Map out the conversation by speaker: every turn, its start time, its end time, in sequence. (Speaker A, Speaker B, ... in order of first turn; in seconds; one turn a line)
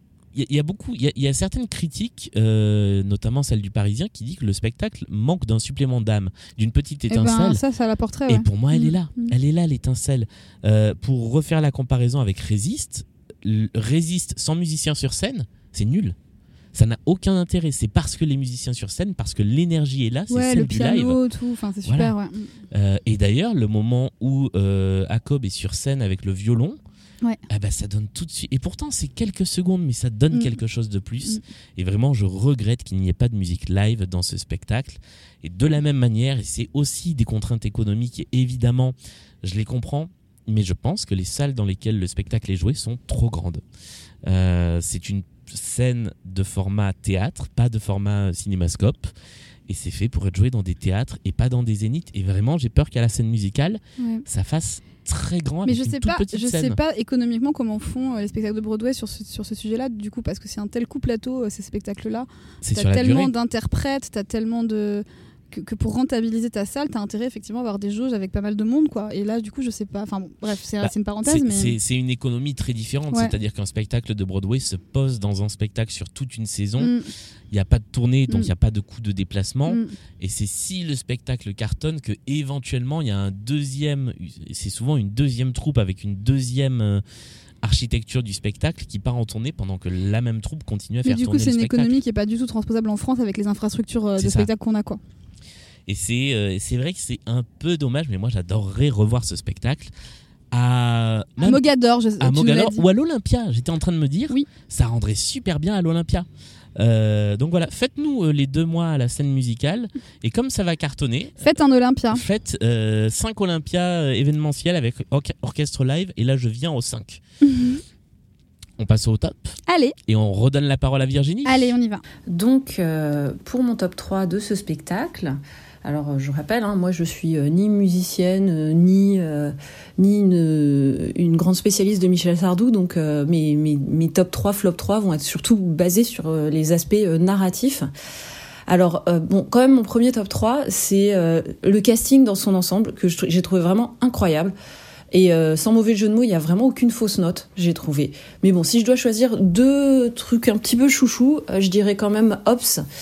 Speaker A: 0.3-7.6
Speaker B: 7.1-9.3
Speaker A: 8.3-16.1
Speaker A: 16.7-21.2
Speaker B: 20.3-22.5
Speaker A: 21.8-22.1
Speaker A: 22.7-26.8
Speaker A: 27.5-43.6
Speaker A: 44.2-49.1
Speaker A: 49.7-56.8
Speaker B: 54.0-54.2
Speaker B: 55.6-71.7
Speaker A: 62.6-63.3
Speaker A: 70.8-76.9
Speaker B: 76.8-77.1
Speaker A: 77.5-87.0
Speaker B: 79.7-79.9
Speaker A: 87.6-92.0
Speaker B: 91.0-95.0
Speaker A: 94.2-94.5
Speaker A: 95.9-99.9
Speaker A: 100.5-101.7
Speaker B: 101.4-102.8
Speaker A: 102.2-111.4
Speaker B: 111.4-112.2
Speaker A: 112.1-117.2
Speaker B: 117.4-117.8
Speaker A: 118.8-119.5
Speaker B: 119.7-119.9
Speaker A: 120.1-121.7
Speaker B: 121.4-122.0
Speaker C: 122.3-137.9
Speaker C: 138.7-144.5
Speaker C: 145.1-152.8